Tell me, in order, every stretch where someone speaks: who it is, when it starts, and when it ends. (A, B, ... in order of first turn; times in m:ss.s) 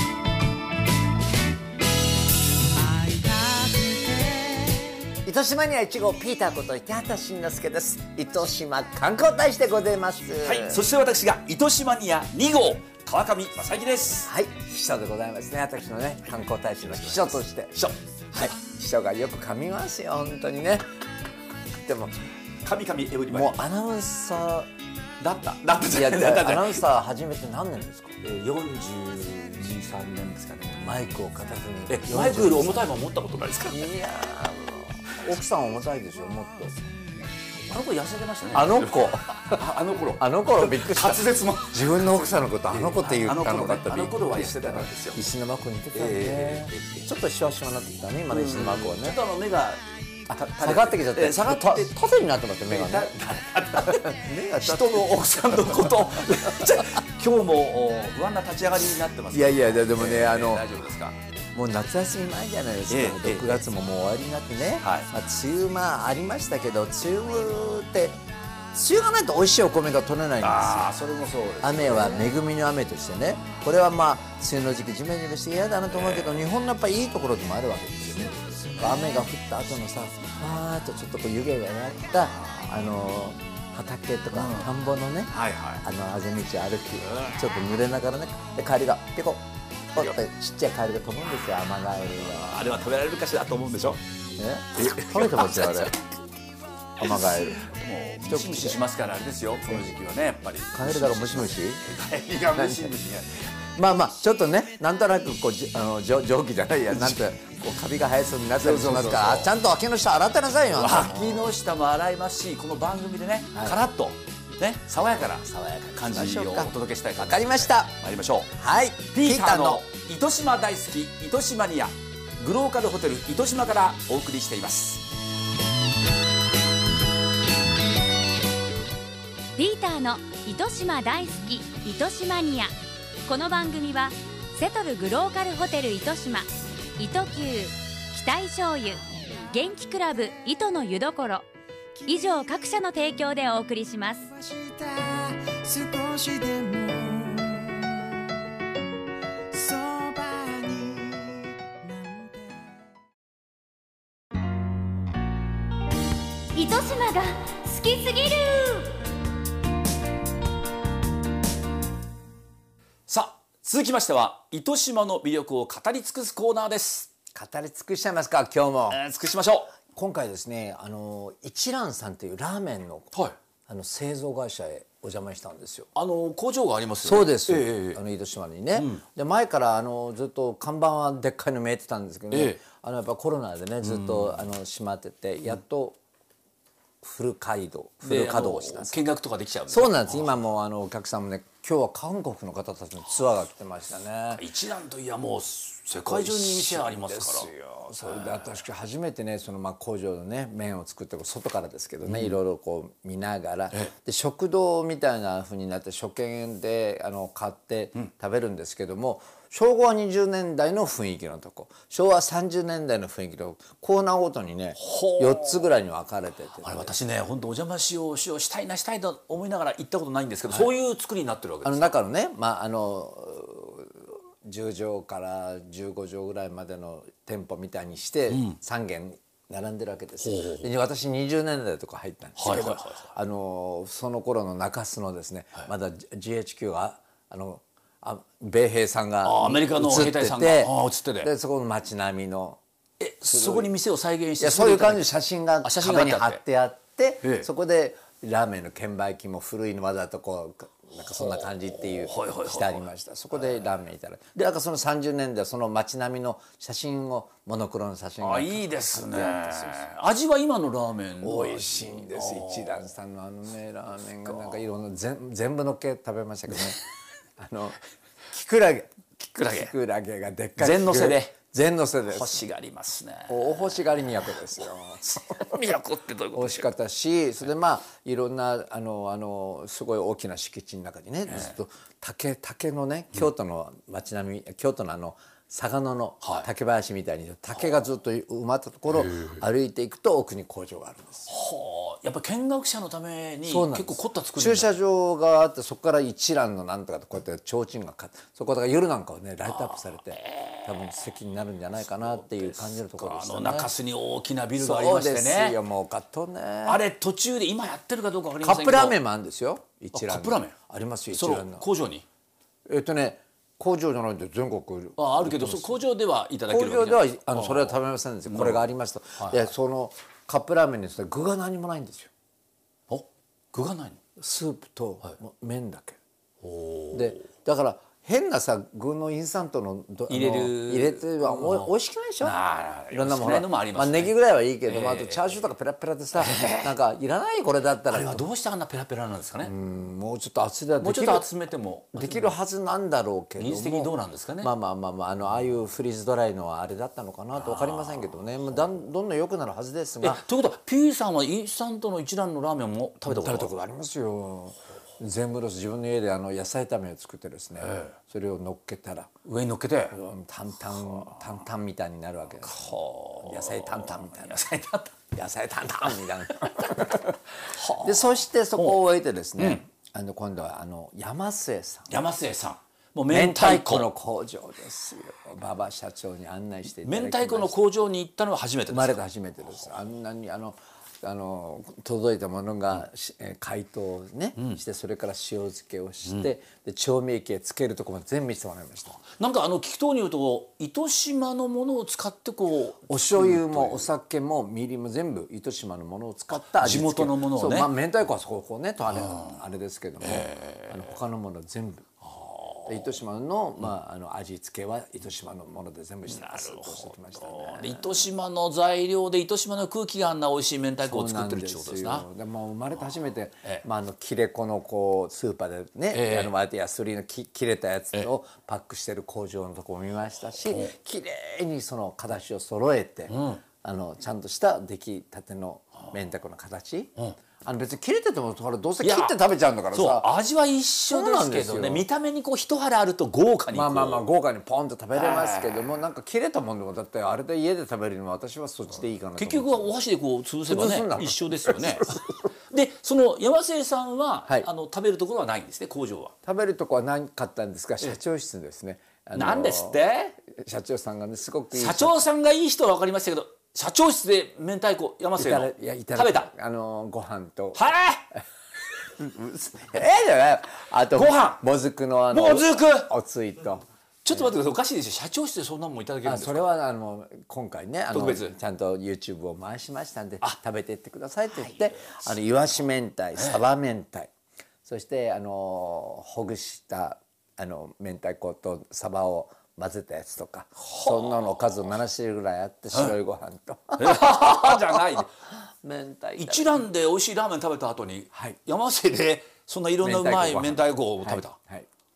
0:02.7-0:05.1 A
0:05.2-0:10.8 B
0:10.4-0:14.3 C
0:14.2-0:20.8 B
0:16.8-0:18.5 C
0:21.8-0:22.2 B
0:22.6-0:23.6 C
0:23.3-0:24.7 B
0:25.2-0:26.8 C
0:25.9-0:28.2 B
0:28.2-0:31.1 C
0:30.8-0:32.9 B
0:31.9-0:33.9 C
0:33.7-0:37.3 B
0:37.7-0:45.2 C
0:38.5-0:39.6 B
0:40.2-0:49.2 B
0:45.9-0:47.0 C
0:48.3-0:52.0 C
0:50.5-0:53.1 B
0:52.7-1:01.2 C
0:53.8-0:56.2 B
0:59.3-1:00.6 B
1:01.5-1:08.2 B
1:02.9-1:03.6 C
1:04.8-1:05.1 C
1:08.7-1:10.9 B
1:10.4-1:12.3 C
1:11.6-1:32.6 B
1:15.9-1:16.4 C
1:18.4-1:19.1 C
1:22.4-1:22.7 C
1:24.3-1:24.7 C
1:25.3-1:25.8 C
1:27.0-1:27.4 C
1:32.1-1:34.0 C
1:34.4-1:36.0 B
1:34.8-1:36.0 C
1:37.0-1:37.7 B
1:37.0-1:43.5 C
1:38.2-1:38.8 B
1:40.7-1:41.8 B
1:42.5-1:42.9 B
1:43.8-1:51.5 B
1:48.6-1:49.5 C
1:50.7-1:58.5 C
1:53.5-1:53.8 B
1:56.0-1:57.9 B
1:58.5-1:59.8 B
1:59.1-2:05.0 C
2:09.6-2:12.7 D
2:13.2-2:21.4 D
2:22.0-2:24.3 D
2:22.1-2:22.5 A
2:24.3-2:28.4 A
2:29.5-2:32.8 A
2:36.5-2:38.9 D
2:43.1-2:47.1 C
2:47.3-2:49.0 B
2:48.9-2:49.7 C
2:49.8-2:53.1 B
2:53.7-2:55.9 B
2:55.9-2:58.0 C
2:57.0-3:06.0 B
2:58.8-2:59.0 C
3:02.3-3:02.6 C
3:03.8-3:04.4 C
3:07.0-3:09.0 B
3:08.0-3:10.3 C
3:09.7-3:14.4 B
3:14.3-3:18.5 C
3:16.0-3:36.9 B
3:22.0-3:22.4 C
3:34.8-3:35.7 C
3:36.6-3:41.9 C
3:41.6-4:02.6 B
3:48.3-3:48.6 C
3:50.2-3:50.7 C
3:52.4-3:53.1 C
3:59.2-4:01.3 C
4:03.0-4:06.4 C
4:03.3-4:03.7 B
4:04.4-4:19.8 B
4:07.2-4:07.5 C
4:11.1-4:12.8 C
4:18.2-4:22.9 C
4:21.2-4:26.8 B
4:24.2-4:24.5 C
4:27.4-4:27.8 B
4:28.3-4:29.0 B
4:29.2-4:29.7 C
4:29.5-4:32.4 B
4:30.6-4:31.3 C
4:32.1-4:33.8 C
4:33.3-4:35.6 B
4:35.3-4:36.7 C
4:36.3-4:51.3 B
4:41.3-4:41.5 C
4:46.2-4:46.5 C
4:48.9-4:49.4 C
4:51.3-4:54.7 C
4:53.4-5:03.7 B
4:59.5-5:00.9 C
5:02.0-5:05.6 C
5:04.6-5:06.8 B
5:06.6-5:09.0 C
5:08.4-5:11.6 B
5:09.9-5:10.6 C
5:11.1-5:12.0 C
5:12.6-5:15.8 B
5:15.0-5:17.8 C
5:16.5-5:22.1 B
5:18.3-5:19.4 C
5:22.9-5:24.0 C
5:24.2-5:26.0 B
5:26.4-5:27.2 C
5:26.9-5:32.4 B
5:30.1-5:34.1 C
5:32.9-5:38.2 B
5:34.6-5:35.3 C
5:36.2-5:36.8 C
5:37.9-5:39.5 C
5:39.4-5:41.3 B
5:40.8-5:42.3 C
5:41.9-5:50.2 B
5:43.4-5:44.5 C
5:47.4-5:48.1 C
5:50.0-5:53.5 C
5:53.0-5:59.1 B
5:57.6-5:57.9 C
5:59.2-6:00.0 C
5:59.9-6:02.7 B
6:02.4-6:04.9 C
6:03.2-6:04.4 B
6:05.1-6:07.2 B
6:06.4-6:06.7 C
6:07.4-6:08.8 C
6:07.8-6:12.0 B
6:09.4-6:09.6 C
6:11.9-6:13.9 C
6:13.1-6:17.6 B
6:16.8-6:19.0 C
6:18.7-6:29.0 B
6:29.0-6:33.9 C
6:32.9-6:41.9 B
6:36.4-6:37.7 C
6:38.9-6:39.4 C
6:40.0-6:40.9 C
6:42.0-6:42.8 C
6:42.6-6:48.1 B
6:46.1-6:52.0 C
6:50.8-7:10.1 B
6:55.9-6:56.3 C
7:03.1-7:03.4 C
7:08.8-7:09.2 C
7:09.7-7:14.1 C
7:10.9-7:11.8 B
7:13.5-7:19.7 B
7:15.0-7:15.7 C
7:19.2-7:26.1 C
7:20.5-7:22.2 B
7:26.2-7:32.0 B
7:29.1-7:30.1 C
7:31.5-7:36.3 C
7:35.2-7:37.6 B
7:37.5-7:38.0 C
7:39.0-7:44.3 B
7:40.9-7:41.4 C
7:42.1-7:42.9 C
7:44.0-7:46.5 C
7:46.0-7:54.1 B
7:47.9-7:48.3 C
7:51.4-7:52.1 C
7:54.6-8:05.0 B
8:00.6-8:01.5 C
8:03.8-8:05.1 C
8:05.6-8:06.6 B
8:06.2-8:11.4 C
8:09.8-8:11.7 B